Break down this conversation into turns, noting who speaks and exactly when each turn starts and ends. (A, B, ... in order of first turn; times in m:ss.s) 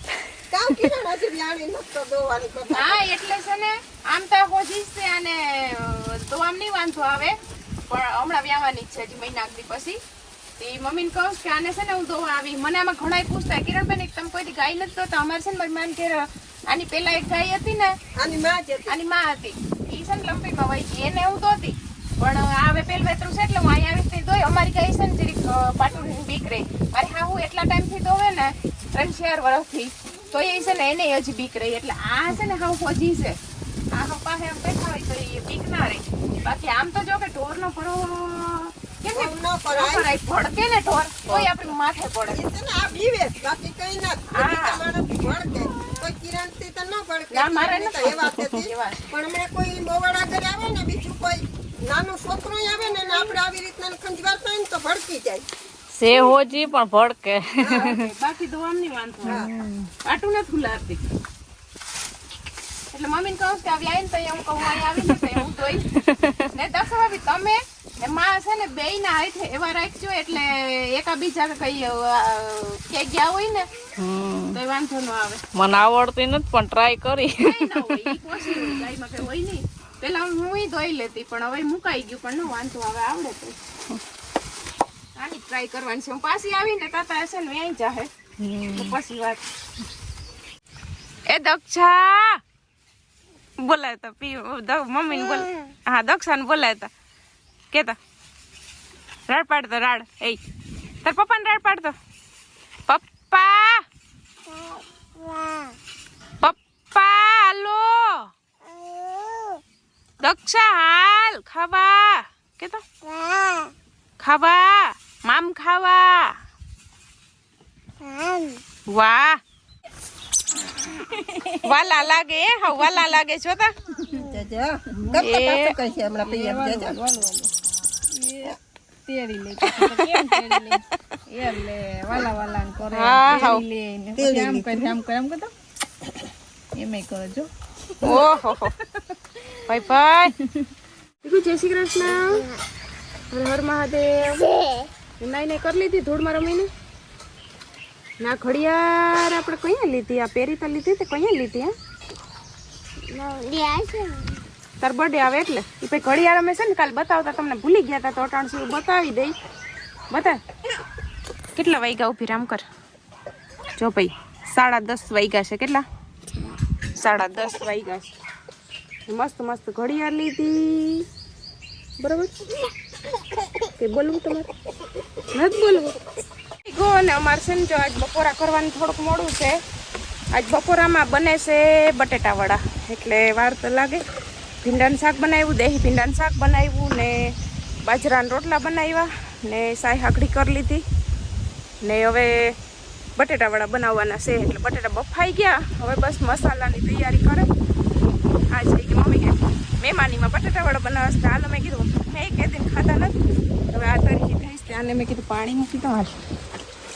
0:00.5-0:03.0 A
0:02.7-0:07.4 B
0:07.9-0:10.0 B
0:10.6-0:18.0 B
0:18.2-0:19.0 A
0:18.9-0:33.4 B
0:33.9-0:42.4 B
0:39.1-0:40.1 A
0:42.3-0:55.5 A
0:44.3-0:44.8 B
0:47.3-0:49.0 B
0:56.0-0:58.0 C
0:57.6-0:59.5 B
0:59.2-0:59.5 A
0:59.3-0:59.7 C
1:00.0-1:01.0 B
1:02.9-1:05.9 B
1:06.1-1:06.4 C
1:06.5-1:13.7 B
1:14.0-1:14.6 C
1:14.5-1:15.4 B
1:15.5-1:18.1 C
1:17.4-1:23.6 B
1:25.2-1:28.1 B
1:28.4-1:28.9 C
1:28.7-1:29.4 B
1:31.3-1:32.4 B
1:33.6-1:36.9 B
1:37.7-1:38.0 B
1:39.3-1:40.4 B
1:41.0-1:42.0 B
1:42.9-1:43.8 B
1:46.4-1:48.3 B
1:50.2-1:52.8 B
1:54.2-1:56.3 B
1:58.9-1:59.4 B
2:01.6-2:03.7 B
2:04.1-2:07.0 A
2:05.1-2:05.7 B
2:06.2-2:07.5 D
2:08.2-2:08.5 D
2:09.1-2:10.1 D
2:09.6-2:10.0 B
2:09.7-2:10.8 C
2:11.3-2:15.5 D
2:12.9-2:13.6 B
2:14.2-2:14.9 A
2:16.8-2:17.4 D
2:18.0-2:18.7 B
2:19.6-2:20.3 B
2:21.2-2:22.4 B
2:23.3-2:24.5 B
2:25.2-2:26.7 B
2:28.2-2:31.7 B
2:33.1-2:34.2 B
2:34.8-2:39.3 B
2:40.1-2:40.4 B
2:41.6-2:42.6 B
2:43.8-2:45.8 B
2:47.0-2:48.1 B
2:49.1-2:51.0 B
2:52.0-2:52.3 B
2:53.8-2:54.5 B
2:55.3-2:56.0 B
2:56.6-2:59.6 B
3:00.3-3:04.0 B
3:04.6-3:07.3 B
3:07.8-3:10.8 B
3:11.8-3:12.5 B
3:13.2-3:17.5 B
3:18.5-3:23.1 B
3:23.7-3:26.1 B